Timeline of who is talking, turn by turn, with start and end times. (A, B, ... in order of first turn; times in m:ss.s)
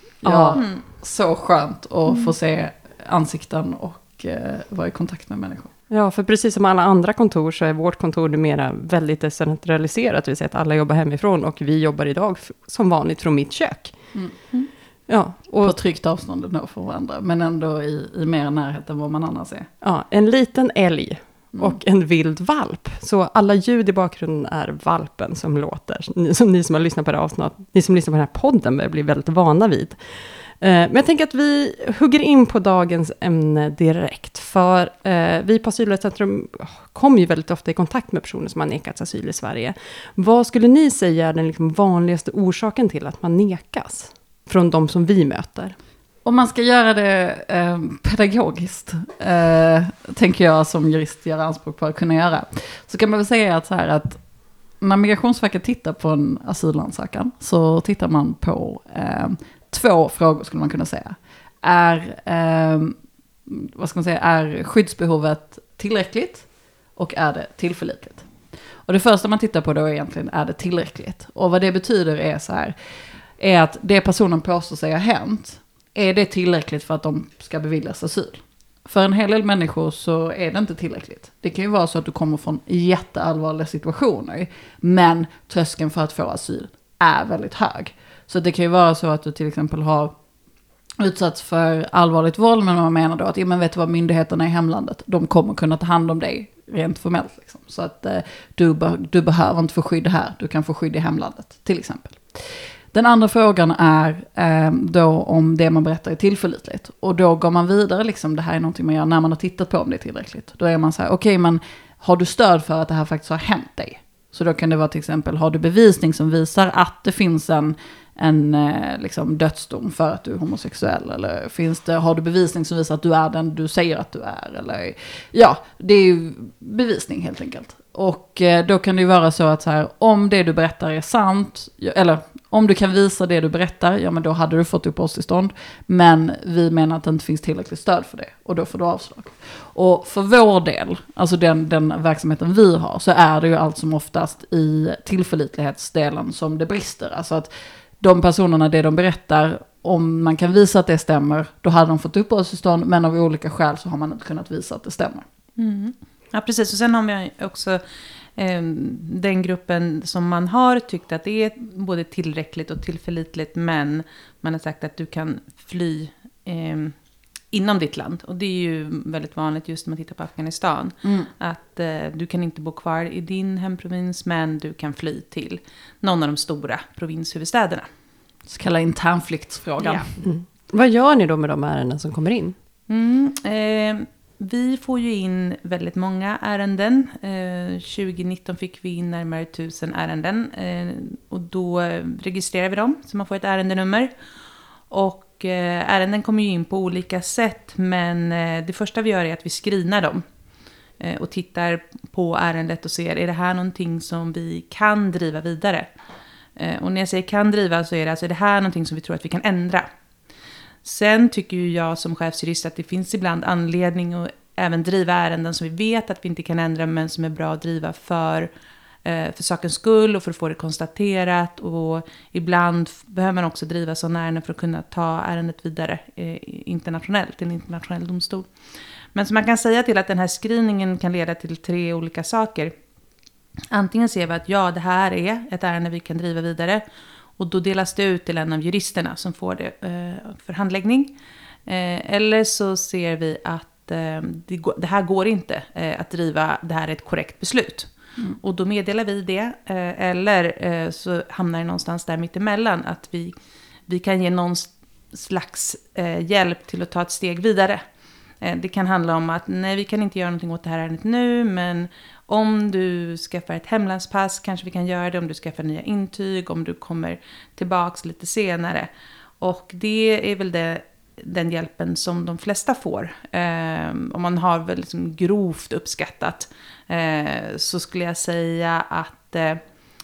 0:00.2-0:05.7 A
0:00.5-0:00.8 B
0:05.9-0:14.2 C
0:15.1-0:15.8 C
0:15.6-0:19.7 A
0:19.8-0:45.8 C
0:46.2-0:54.2 A
0:54.8-1:08.3 A
1:08.8-1:12.8 A
1:13.4-1:30.1 A
1:31.0-2:35.2 A
2:35.6-2:37.8 B
2:38.4-2:47.0 B
2:47.5-2:57.9 B
2:51.0-2:51.3 A
2:58.5-3:00.1 A
2:59.8-3:00.1 B
3:00.2-3:02.6 C
3:02.9-3:14.1 B
3:14.9-3:20.2 B
3:21.0-3:25.9 B
3:26.6-3:29.9 B
3:30.8-3:38.5 B
3:39.0-3:48.5 B
3:49.1-3:52.7 B
3:53.7-3:56.8 B
3:57.4-4:01.1 B
4:01.7-4:13.4 B
4:13.9-4:17.8 B
4:18.4-4:39.6 B